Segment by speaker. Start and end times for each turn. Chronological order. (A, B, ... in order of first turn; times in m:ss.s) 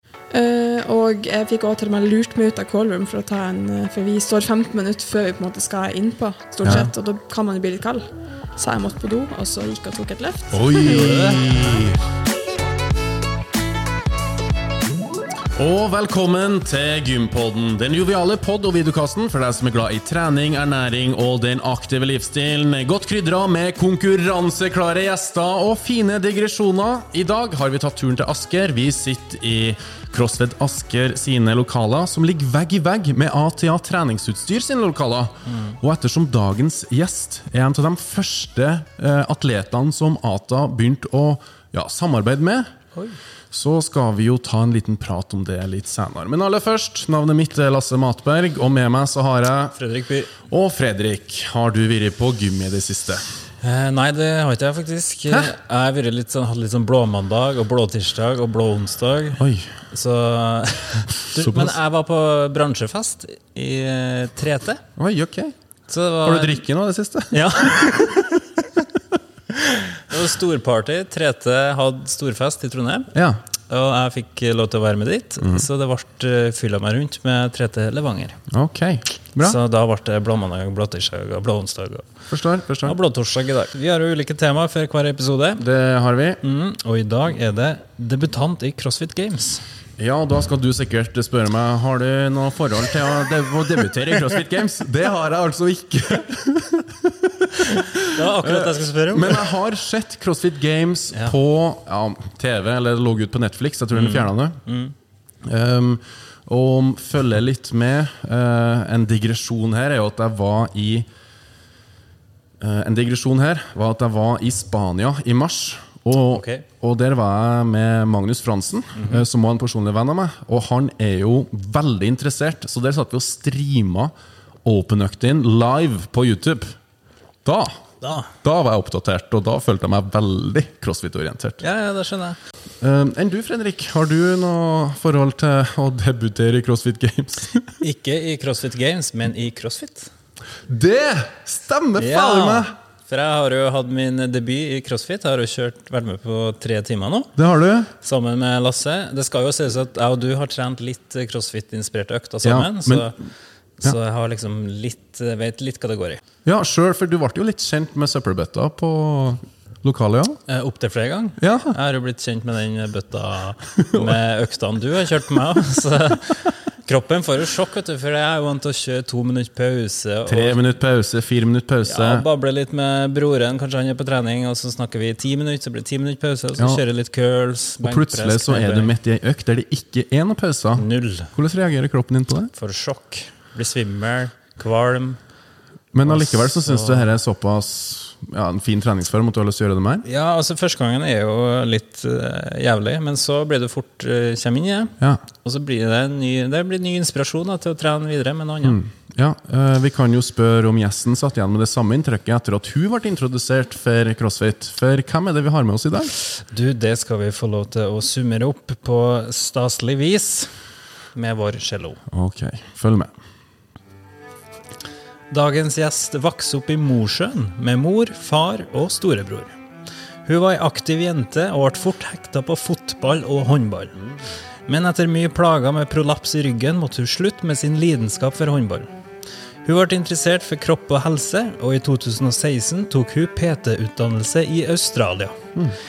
0:00.3-0:08.0 A
0:06.6-0:06.9 B
0:08.6-0:10.9 A
0:10.5-0:12.0 B
0:10.8-0:11.9 C
0:15.5-0:42.7 B
0:43.5-0:49.8 B
0:49.8-0:50.4 C
0:50.4-0:53.2 B
0:53.6-1:04.8 C
0:59.4-0:59.7 B
1:01.4-1:01.8 B
1:05.0-1:05.5 B
1:05.9-1:06.6 C
1:06.2-1:08.2 B
1:07.3-1:08.3 C
1:09.5-1:13.1 C
1:13.1-1:13.4 B
1:13.7-1:18.4 C
1:15.4-1:15.7 B
1:18.5-1:19.6 B
1:19.4-1:22.0 C
1:22.3-1:23.0 B
1:22.8-1:25.6 C
1:25.6-1:26.4 B
1:26.4-1:29.6 C
1:30.0-1:44.6 B
1:37.8-1:39.5 C
1:43.9-1:44.9 C
1:45.4-1:51.1 B
1:52.6-2:04.1 B
1:56.3-1:56.6 C
2:04.6-2:06.8 B
2:07.4-2:07.8 B
2:08.0-2:08.3 C
2:08.4-2:11.6 B
2:11.6-2:12.4 C
2:12.8-2:17.8 B
2:17.8-2:20.1 C
2:20.7-2:22.7 B
2:22.0-2:27.3 C
2:27.4-2:27.9 B
2:28.0-2:33.1 C
2:32.4-2:33.1 B
2:33.8-2:36.2 C
2:36.4-2:40.4 B
2:40.5-2:50.6 C
2:41.4-2:41.8 B
2:43.8-2:44.2 B
2:50.3-2:52.3 B
2:51.9-2:58.9 C
2:57.8-3:02.5 B
3:00.8-3:01.3 C
3:02.5-3:05.2 C
3:05.9-3:10.0 B
3:06.0-3:07.1 C
3:10.0-3:18.8 C
3:18.6-3:26.1 B
3:26.5-3:30.5 C
3:31.1-3:32.0 C
3:32.1-3:33.1 B
3:35.3-3:39.5 C
3:40.2-3:43.9 C
3:44.7-3:48.9 C
3:49.6-3:55.4 C